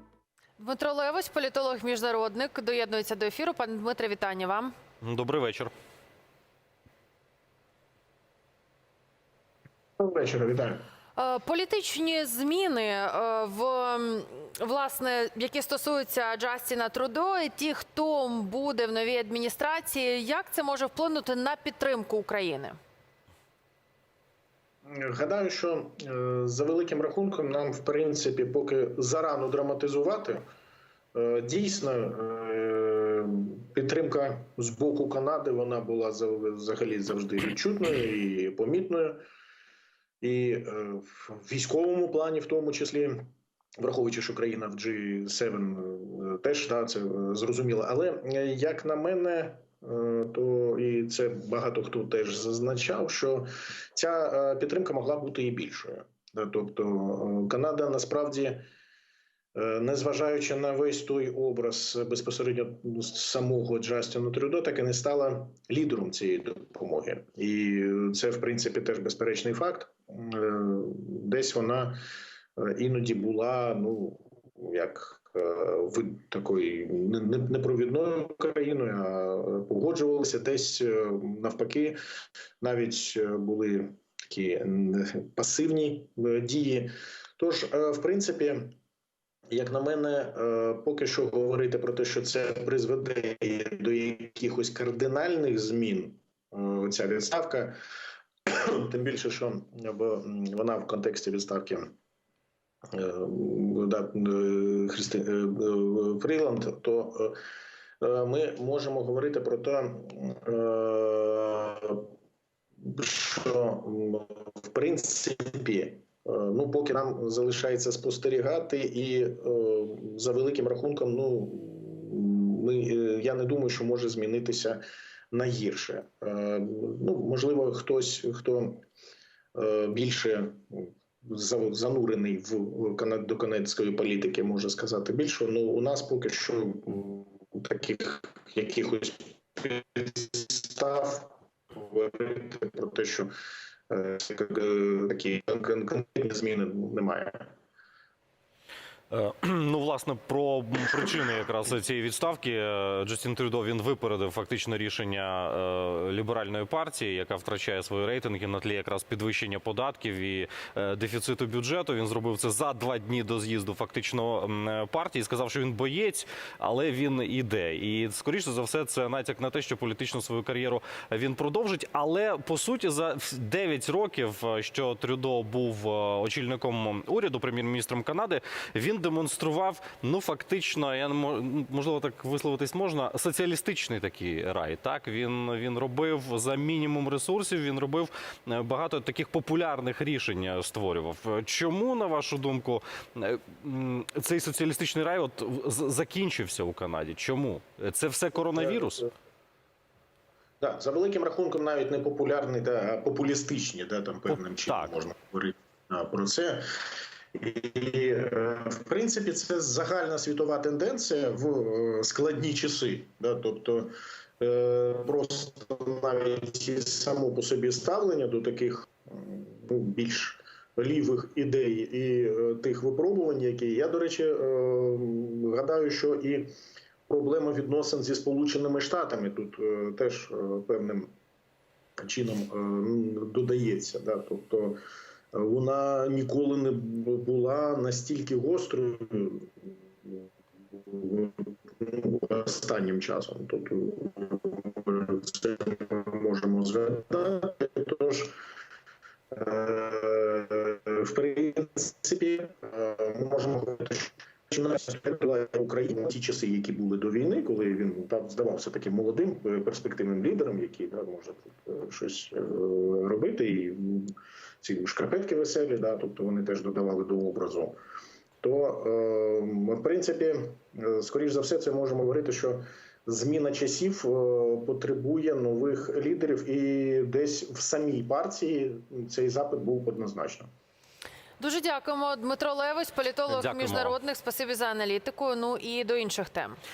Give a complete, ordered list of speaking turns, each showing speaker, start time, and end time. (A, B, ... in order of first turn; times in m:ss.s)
0:00.6-0:04.8 A
0:05.0-0:05.7 B
0:10.0-0:10.8 C
0:11.2-0:22.8 A
0:24.9-0:30.4 C
0:31.1-0:39.2 C
0:40.2-0:43.3 C
0:43.8-0:58.6 C
0:59.6-1:12.0 C
1:12.6-1:22.0 C
1:22.6-1:28.7 C
1:29.5-1:37.8 C
1:38.5-1:41.9 C
1:42.9-1:47.4 C
1:48.0-1:52.1 C
1:52.8-2:04.8 C
2:05.3-2:08.8 C
2:09.5-2:23.3 C
2:23.9-2:27.5 C
2:29.1-3:19.1 B
3:20.6-3:26.6 C
3:24.7-3:24.9 B
3:27.4-3:46.5 C
3:47.1-3:51.1 C
3:52.0-3:54.8 C
3:55.3-4:08.4 C
4:09.3-4:27.8 C
4:28.4-4:40.5 C
4:41.4-4:46.6 A
4:43.3-4:44.0 B